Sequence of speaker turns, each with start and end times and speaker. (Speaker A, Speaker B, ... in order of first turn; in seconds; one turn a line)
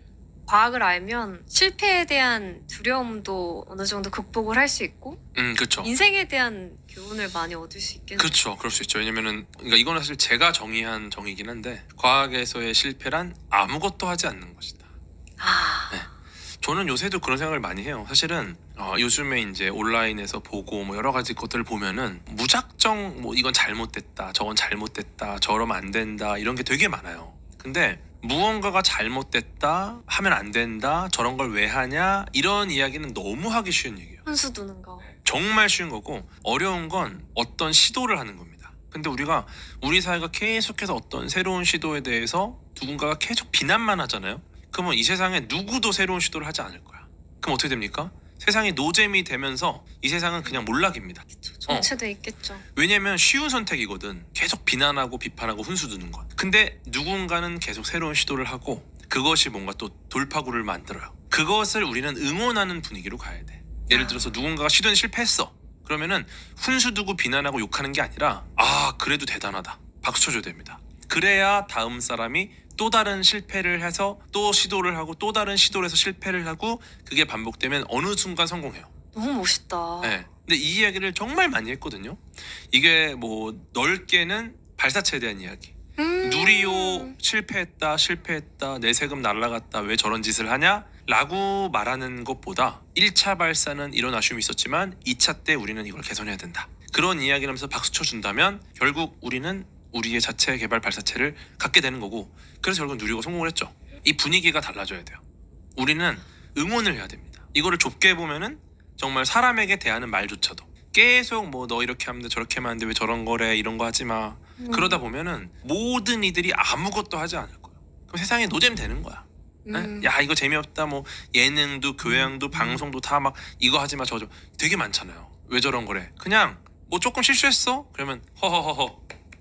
Speaker A: 0.5-5.2
Speaker B: 5.3-5.9
Speaker A: 5.8-8.3
Speaker B: 8.2-14.8
Speaker A: 15.4-16.0
Speaker B: 16.6-34.2
Speaker A: 34.2-35.1
Speaker B: 35.2-51.9
Speaker A: 51.4-52.6
Speaker B: 52.7-78.9
Speaker A: 63.9-64.4
Speaker A: 79.1-80.2
Speaker B: 80.0-105.2
Speaker A: 86.0-87.1
Speaker B: 105.8-129.0
Speaker A: 114.6-115.0
Speaker A: 119.7-120.1